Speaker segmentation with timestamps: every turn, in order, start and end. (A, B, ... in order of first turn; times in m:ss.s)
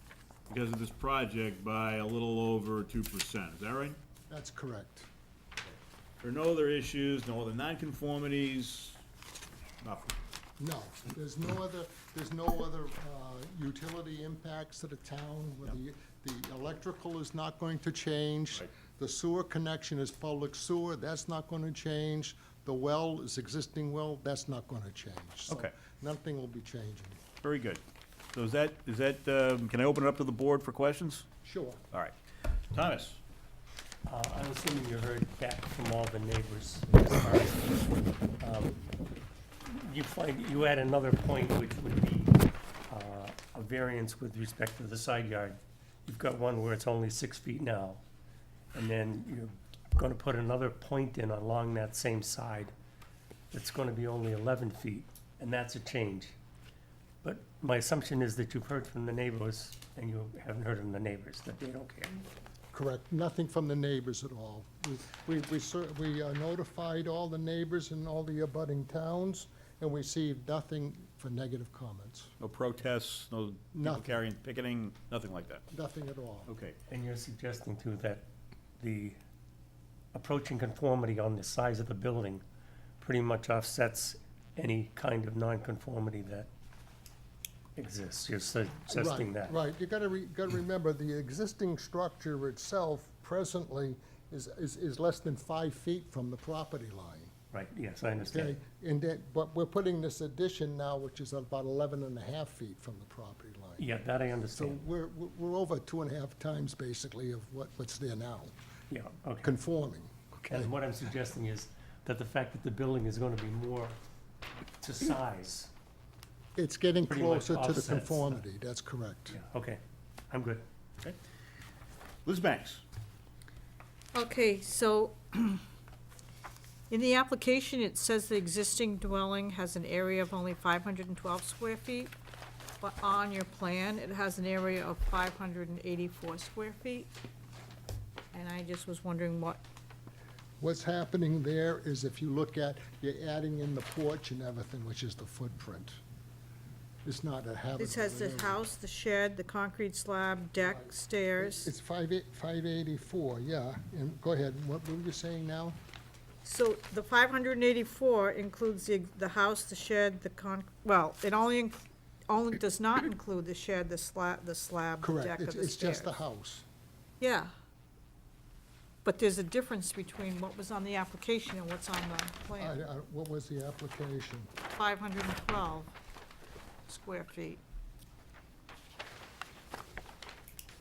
0:00.5-0:04.0 A
0:04.3-0:05.1 B
0:06.2-0:09.0 A
0:09.8-0:10.2 A
0:10.6-0:27.2 B
0:25.5-0:25.7 A
0:27.4-0:27.8 A
0:28.3-0:31.3 A
0:31.4-0:31.8 B
0:31.9-0:32.2 A
0:32.7-0:33.2 A
0:34.1-0:38.9 C
0:39.6-0:48.0 C
0:48.7-0:52.7 C
0:53.5-0:56.4 C
0:57.2-1:02.2 C
1:02.7-1:12.3 B
1:12.4-1:15.6 A
1:13.8-1:14.2 B
1:15.7-1:16.5 B
1:16.5-1:16.8 A
1:16.9-1:18.3 C
1:18.8-1:19.2 C
1:20.1-1:22.4 C
1:23.0-1:26.5 C
1:27.8-1:29.6 C
1:28.9-1:37.3 B
1:37.5-1:38.6 C
1:38.3-1:43.9 B
1:43.8-1:44.8 C
1:44.6-1:48.5 B
1:48.9-1:49.6 C
1:49.4-1:50.8 B
1:50.4-1:54.0 C
1:54.8-1:55.7 C
1:56.6-1:59.4 B
1:57.1-1:58.4 C
1:59.3-2:00.6 C
2:02.3-2:02.8 A
2:04.2-2:05.6 D
2:06.9-2:12.1 D
2:12.8-2:17.1 D
2:18.3-2:19.6 D
2:20.6-2:26.0 B
2:27.0-2:28.6 B
2:27.8-2:31.7 D
2:30.6-2:35.8 B
2:36.4-2:46.1 D
2:45.0-2:46.6 B
2:47.2-2:47.5 D
2:49.0-2:52.8 D
2:52.6-2:54.5 B
2:54.7-2:55.9 D
2:56.9-2:57.6 D